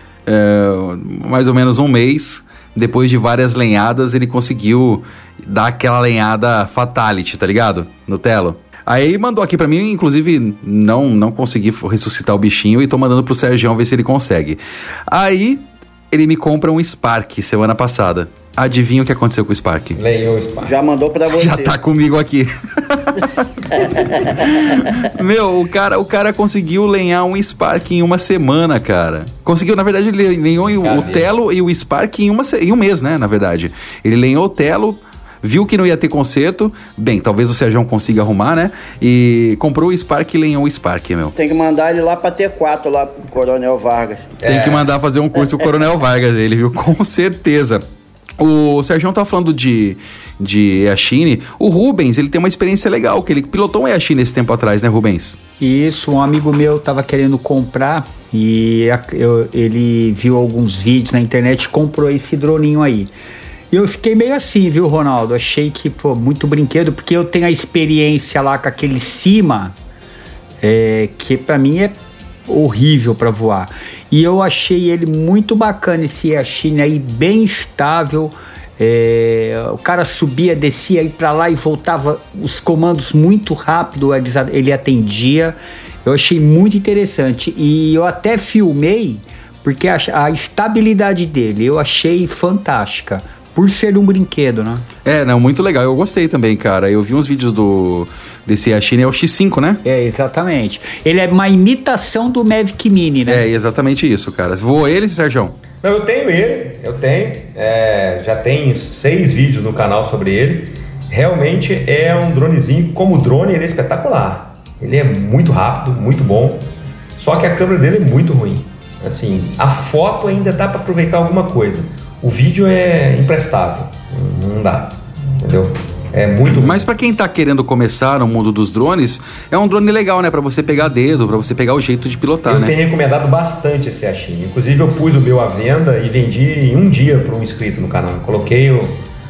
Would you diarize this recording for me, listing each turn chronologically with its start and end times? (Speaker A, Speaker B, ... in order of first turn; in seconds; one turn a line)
Speaker A: 0.3-20.0
Speaker B: 20.0-20.8
Speaker C: 20.6-21.8
Speaker A: 21.3-41.3
Speaker B: 30.7-31.3
Speaker C: 41.4-44.4
Speaker B: 44.4-44.9
Speaker A: 44.4-47.9
Speaker A: 48.4-55.4
Speaker D: 55.6-63.1
Speaker D: 63.7-69.7
Speaker D: 70.6-71.9
Speaker D: 72.5-94.8
Speaker A: 95.0-99.8
Speaker D: 99.8-103.4
Speaker A: 103.3-105.6
Speaker B: 105.8-126.9
Speaker A: 126.5-132.8
Speaker B: 132.5-139.0